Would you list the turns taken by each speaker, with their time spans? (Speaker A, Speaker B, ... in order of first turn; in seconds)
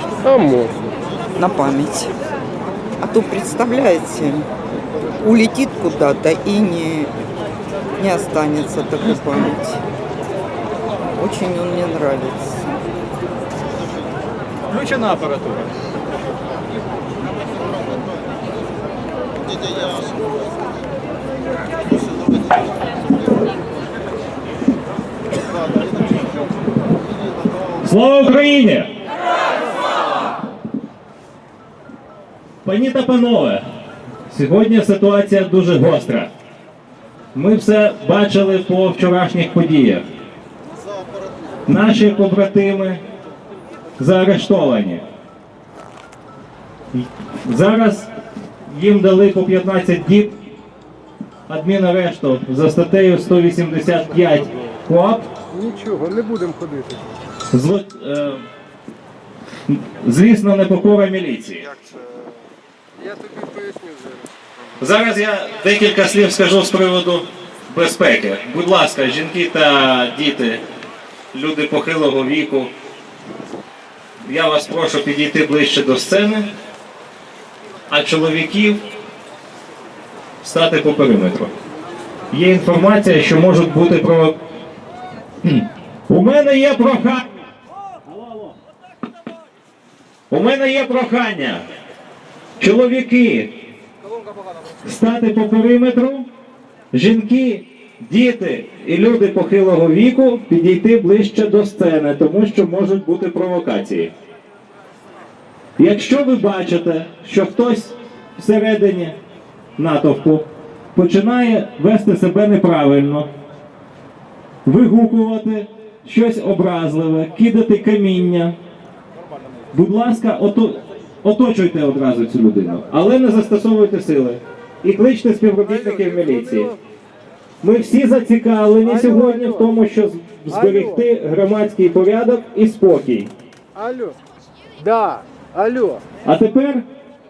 Speaker A: 0.2-0.9, 55.5-57.0, 63.0-64.3, 125.9-126.7, 128.8-129.7, 130.5-131.0, 133.8-134.2, 134.8-136.0
Speaker B: 1.4-2.1, 3.0-4.5, 5.2-7.1, 8.0-9.8, 11.2-12.8
Speaker C: 14.7-15.7, 27.8-28.9, 32.6-33.6, 34.3-36.3, 37.3-40.0, 41.7-43.0, 44.0-45.0, 46.9-48.1, 48.7-50.3, 51.5-55.3, 57.5-58.4, 59.7-61.7, 64.8-70.6, 71.3-72.7, 74.2-76.5, 77.9-78.8, 80.4-81.5, 82.3-84.4, 85.4-87.3, 88.1-88.5, 90.3-91.6, 92.6-93.5, 94.8-96.2, 96.9-104.1, 105.8-109.1, 109.8-113.3, 114.6-118.5, 119.7-126.7, 127.6-133.3, 136.2-136.8